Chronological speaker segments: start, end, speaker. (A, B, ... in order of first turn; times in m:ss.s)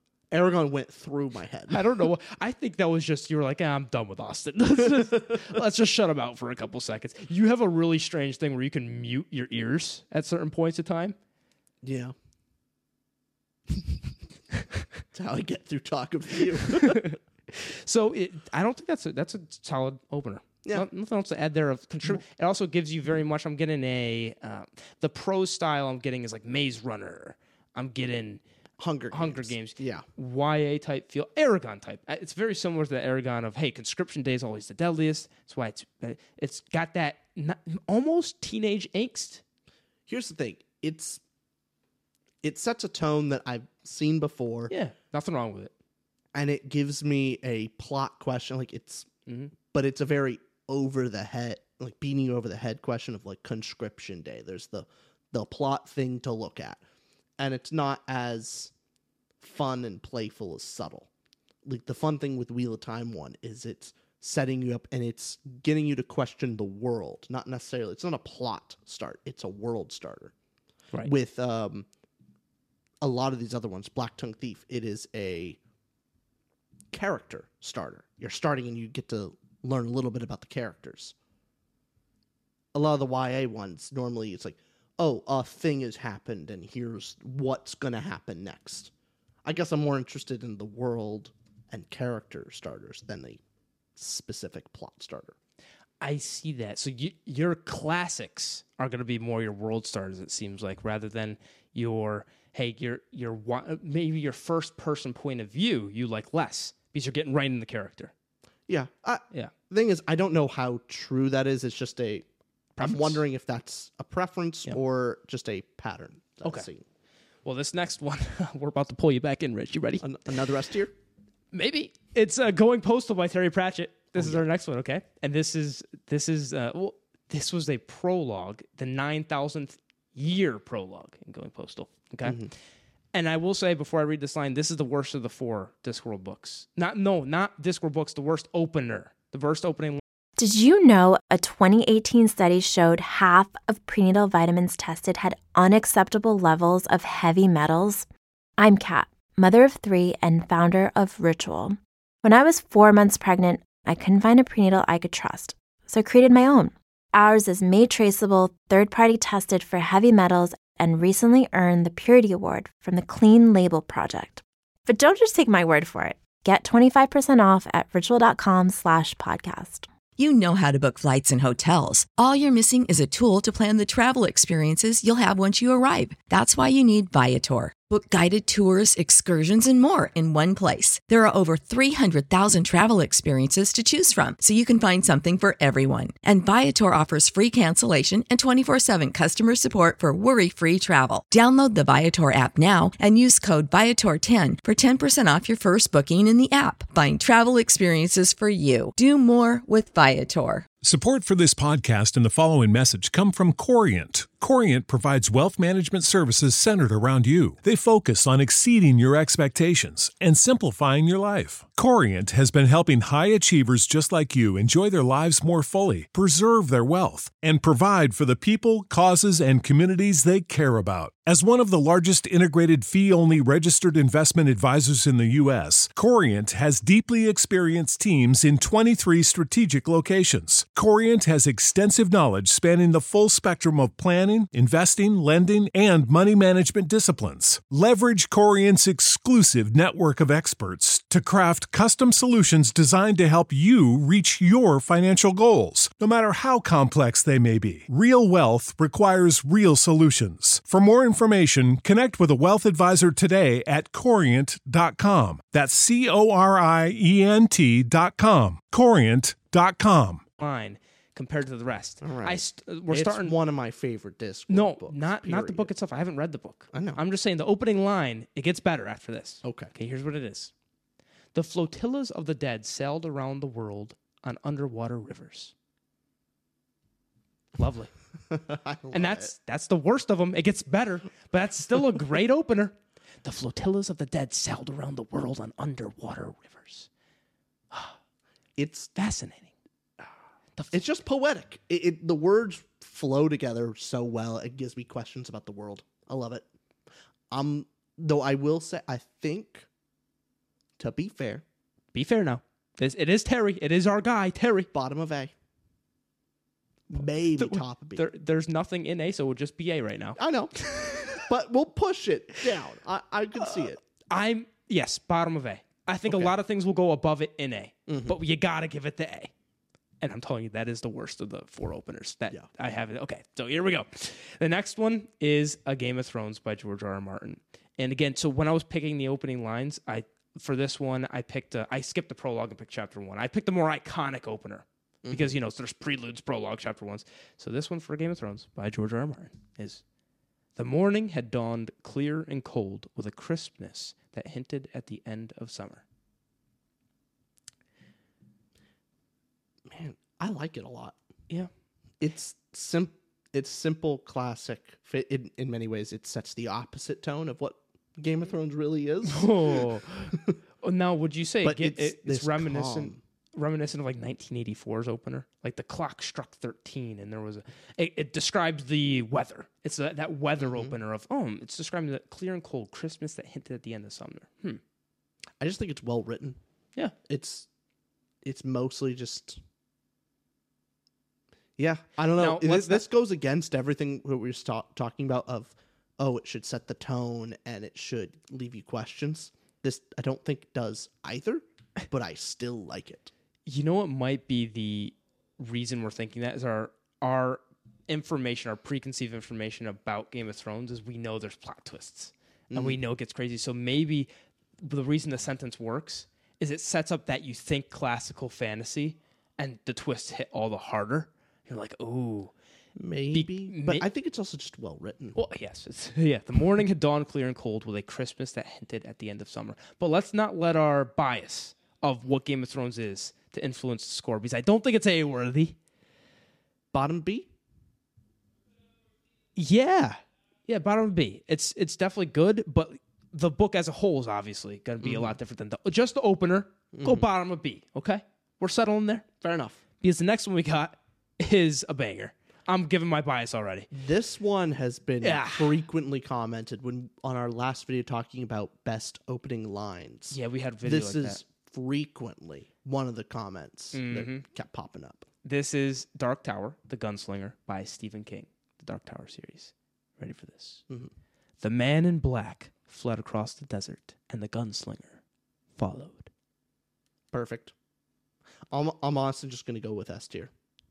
0:00.3-0:02.0 A
0:01.7-0:11.2 B
0:04.9-0:05.4 A
0:11.8-0:12.1 A
0:15.1-0:17.2 A
0:16.7-0:28.4 B
0:28.8-0:30.0 A
0:29.1-0:39.4 B
0:40.1-0:41.2 A
0:42.4-0:44.7 A
0:44.7-0:45.7 B
0:46.3-0:49.1 A
0:49.3-0:49.5 B
0:49.7-0:56.8 A
0:57.4-0:58.7 A
0:59.4-1:01.1 A
1:01.6-1:10.3 A
1:11.0-1:11.9 A
1:13.0-1:15.6 A
1:16.9-1:21.2 A
1:22.7-1:28.9 A
1:29.4-1:33.4 A
1:34.0-1:35.4 A
1:36.0-1:48.1 B
1:48.7-1:56.8 A
1:52.8-1:53.2 B
1:57.4-2:00.1 B
2:00.0-2:00.9 A
2:01.5-2:12.5 B
2:04.2-2:04.5 A
2:12.2-2:12.5 A
2:13.1-2:20.0 B
2:20.4-2:28.1 C
2:28.6-2:49.9 C
2:50.2-3:20.7 D
3:20.8-4:20.2 E
4:20.4-4:23.4 B
4:22.0-4:25.7 A
4:24.5-4:30.5 B
4:26.7-4:27.0 A
4:29.4-4:29.7 A
4:31.3-4:35.5 B
4:37.6-4:37.9 B
4:38.3-4:39.3 A
4:38.9-4:46.9 B
4:47.7-4:48.0 B
4:48.6-4:48.9 A
4:49.0-4:49.5 B
4:50.6-4:50.8 B
4:50.7-4:56.5 A
4:57.3-4:59.7 A
5:00.8-5:01.4 A
5:01.9-5:04.7 B
5:04.7-5:05.3 A
5:06.9-5:11.3 B
5:06.9-5:08.1 A
5:10.2-5:13.8 A
5:13.5-5:19.3 B
5:16.1-5:16.3 A
5:17.9-5:18.2 A
5:20.0-5:39.8 B
5:35.0-5:35.4 A
5:40.6-5:45.8 B
5:49.7-5:51.0 A
5:52.0-6:00.4 A
5:59.0-6:14.6 B
6:01.4-6:03.0 A
6:10.4-6:10.8 A
6:15.4-6:16.4 A
6:17.1-6:17.5 A
6:18.2-6:19.4 A
6:21.6-6:33.1 A
6:22.2-6:22.8 B
6:33.5-6:44.1 B
6:42.5-6:42.8 A
6:44.6-6:52.3 B
6:52.8-6:55.2 A
6:53.1-6:53.9 B
6:55.2-7:05.6 B
7:06.7-7:07.3 A
7:09.4-7:19.2 B
7:14.8-7:15.2 A
7:16.7-7:17.1 A
7:19.2-7:19.6 A
7:19.8-7:23.7 B
7:23.7-7:35.1 A
7:25.0-7:25.6 B
7:30.1-7:31.2 B
7:33.7-7:34.2 B
7:35.2-7:40.6 B
7:41.4-7:45.0 B
7:45.6-7:46.1 B
7:47.1-7:47.5 A
7:48.5-7:50.3 A